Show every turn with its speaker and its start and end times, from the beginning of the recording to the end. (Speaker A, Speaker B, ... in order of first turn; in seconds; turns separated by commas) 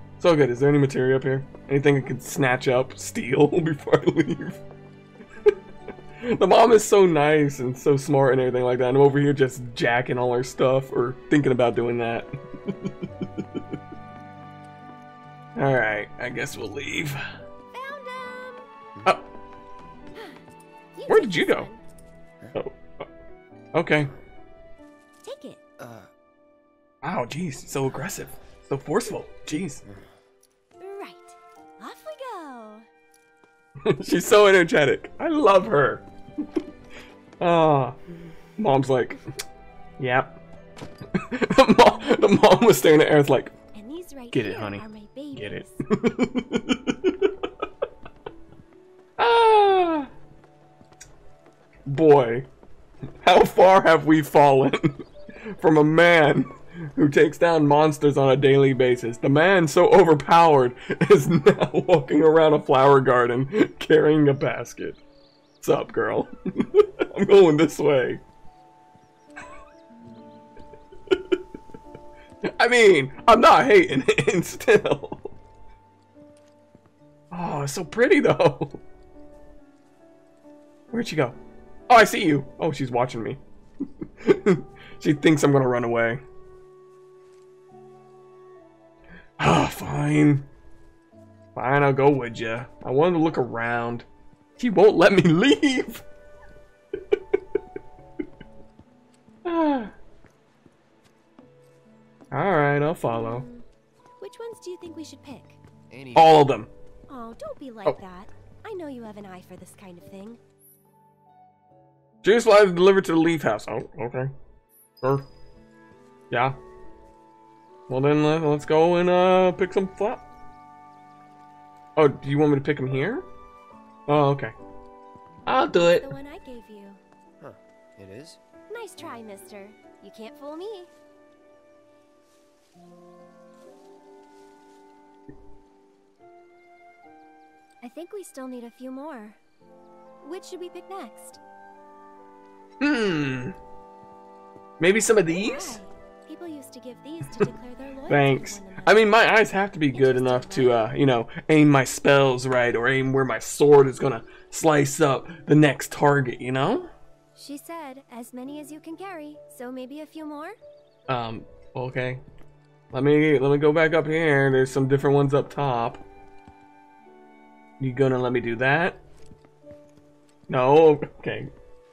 Speaker A: 0.2-4.6, Speaker A: 6.2-13.4, Speaker A: 15.6-17.2, Speaker B: 17.7-18.7, Speaker B: 20.9-21.8, Speaker A: 21.1-21.7, Speaker A: 22.5-23.1, Speaker A: 23.7-24.1, Speaker B: 25.2-25.6, Speaker C: 25.8-26.1, Speaker A: 27.0-29.9, Speaker C: 29.9-30.1, Speaker B: 30.8-32.9, Speaker A: 33.8-36.0, Speaker A: 37.4-38.0, Speaker A: 38.6-39.2, Speaker A: 40.0-40.4, Speaker A: 41.1-43.5, Speaker B: 43.7-45.8, Speaker A: 44.3-47.3, Speaker A: 49.2-50.1, Speaker A: 51.9-52.5, Speaker A: 53.2-65.0, Speaker A: 65.6-68.2, Speaker A: 72.4-75.3, Speaker A: 77.3-78.8, Speaker A: 80.9-81.4, Speaker A: 81.9-83.4, Speaker A: 84.2-86.2, Speaker A: 89.4-90.5, Speaker A: 91.5-94.1, Speaker A: 94.6-96.0, Speaker A: 99.5-99.9, Speaker A: 102.3-103.5, Speaker B: 103.1-103.6, Speaker B: 104.2-105.6, Speaker C: 105.9-106.4, Speaker A: 106.2-106.7, Speaker B: 107.1-110.4, Speaker A: 112.2-114.3, Speaker A: 116.3-116.6, Speaker A: 117.9-120.2, Speaker A: 122.0-123.3, Speaker A: 124.1-124.5, Speaker A: 125.5-126.1, Speaker B: 126.0-127.0, Speaker C: 127.4-128.4, Speaker B: 128.7-130.9, Speaker B: 137.8-139.4, Speaker B: 140.2-141.4, Speaker A: 142.8-143.6, Speaker A: 144.8-145.8, Speaker B: 145.3-150.9, Speaker A: 148.1-156.9, Speaker B: 157.4-160.6, Speaker A: 161.1-162.2, Speaker A: 162.9-166.0, Speaker A: 167.8-169.0, Speaker A: 170.5-171.5